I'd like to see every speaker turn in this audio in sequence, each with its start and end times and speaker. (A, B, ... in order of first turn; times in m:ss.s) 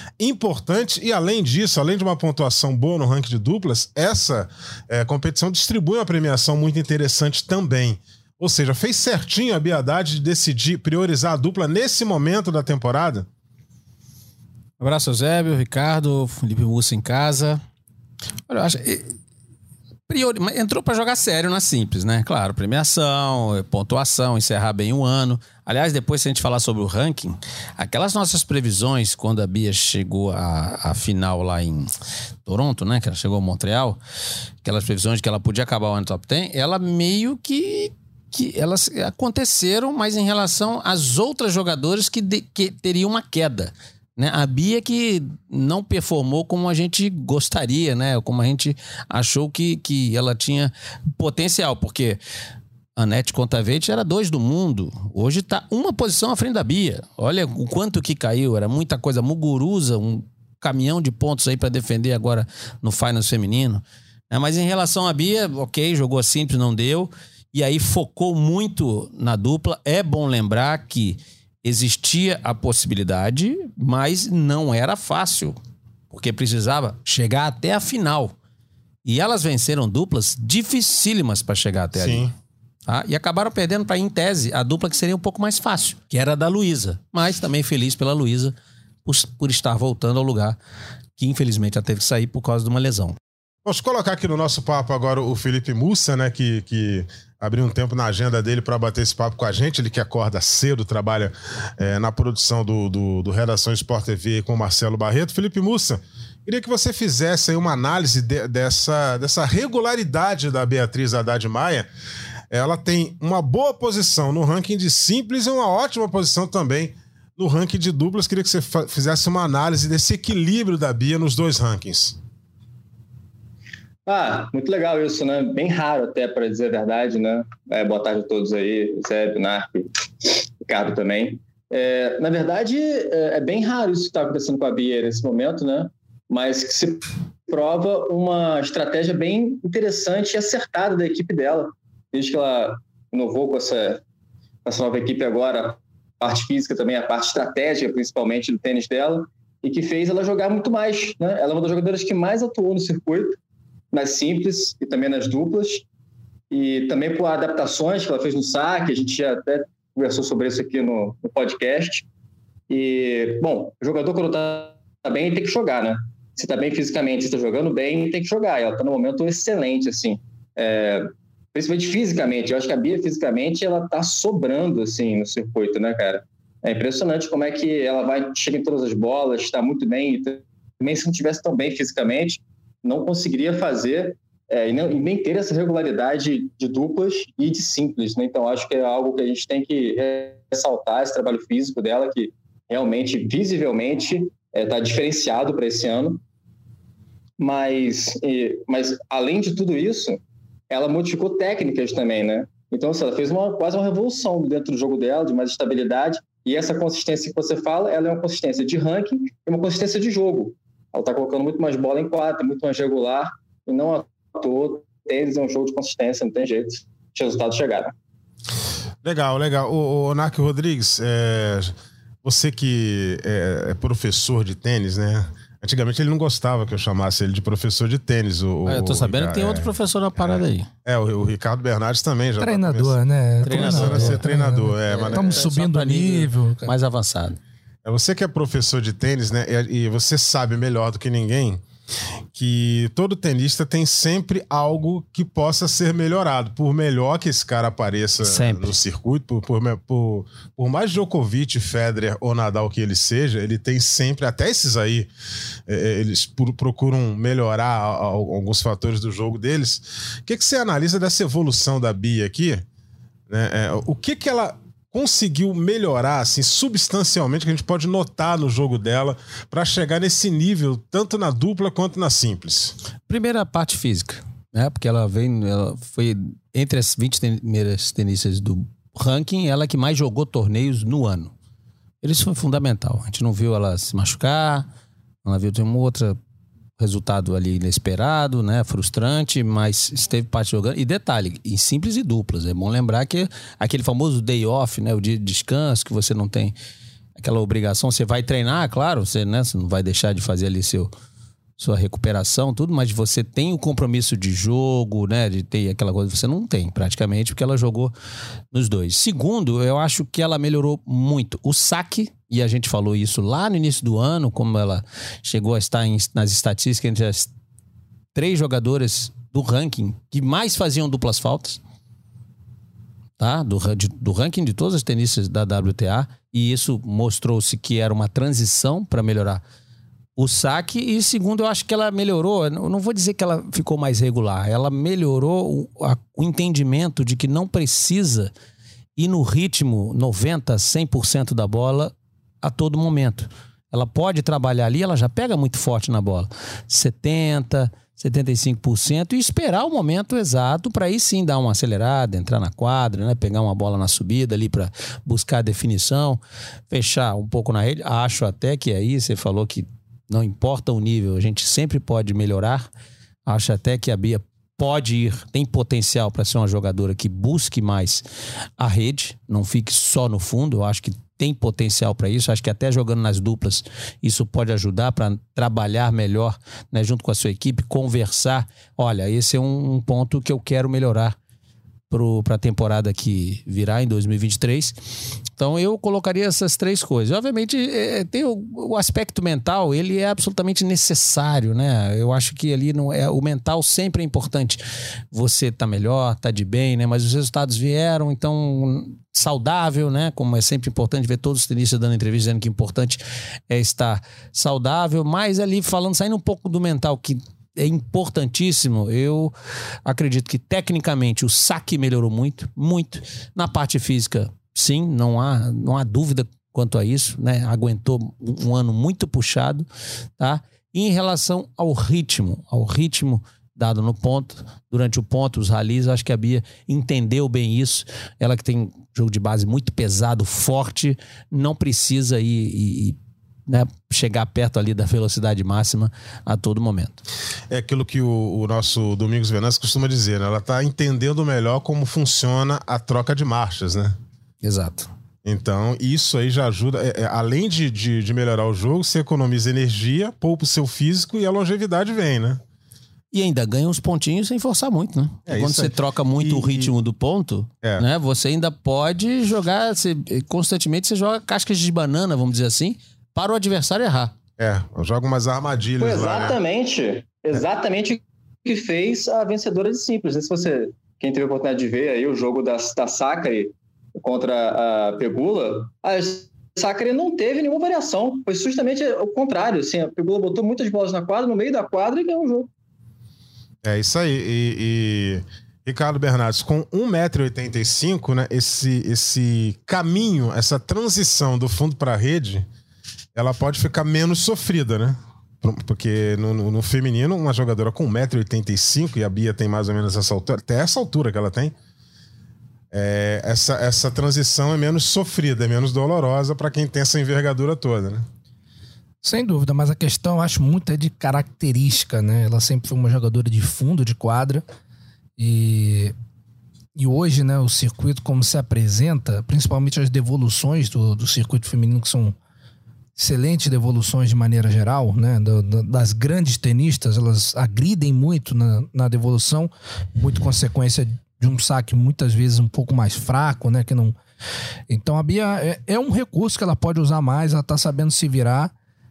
0:00.2-0:13.3 A
0:14.8-0:17.6 B
0:18.5-0:19.1 B
0:20.1-0:31.9 B
0:32.5-0:34.0 B
0:34.6-0:52.2 B
0:53.0-1:15.6 B
1:16.1-1:18.4 B
1:19.0-1:22.3 B
1:22.0-1:22.3 A
1:22.9-1:30.6 B
1:31.2-1:33.2 B
1:33.6-1:51.9 A
1:52.5-2:02.2 A
2:04.1-2:24.0 C
2:24.6-2:33.4 C
2:33.9-2:35.8 C
2:36.5-2:42.0 C
2:42.7-3:16.2 C
3:17.4-3:37.9 C
3:39.0-3:55.4 A
3:48.6-3:50.7 B
3:52.4-3:56.7 D
3:53.4-3:54.2 B
3:54.8-3:57.4 B
3:57.8-4:01.6 A
4:02.3-4:15.1 A
4:08.2-4:08.7 B
4:15.7-4:22.6 A
4:23.3-4:32.8 A
4:33.1-4:41.3 B
4:42.0-4:44.7 B
4:45.2-4:46.2 B
4:46.8-4:56.6 B
4:57.2-5:00.9 B
5:01.6-5:07.9 B
5:08.5-5:17.3 B
5:18.2-5:21.6 B
5:23.2-5:29.4 B
5:30.2-5:38.3 B
5:39.0-6:02.7 B
6:03.3-6:08.0 B
6:08.6-6:21.2 B
6:21.9-6:24.8 B
6:25.4-6:34.6 B
6:35.1-6:49.3 B
6:49.8-6:59.7 B
7:00.2-7:17.0 B
7:17.5-7:24.0 A
7:24.4-7:24.9 B
7:25.2-7:32.4 A
7:33.1-7:44.1 B
7:35.3-7:36.7 A
7:44.4-7:46.4 A
7:45.8-8:02.5 C
8:03.6-8:12.5 A
8:13.2-8:21.5 A
8:22.7-8:28.0 A
8:29.0-8:34.4 D
8:35.2-8:35.9 D
8:36.8-8:42.2 D
8:43.0-8:54.0 D
8:54.7-8:58.5 D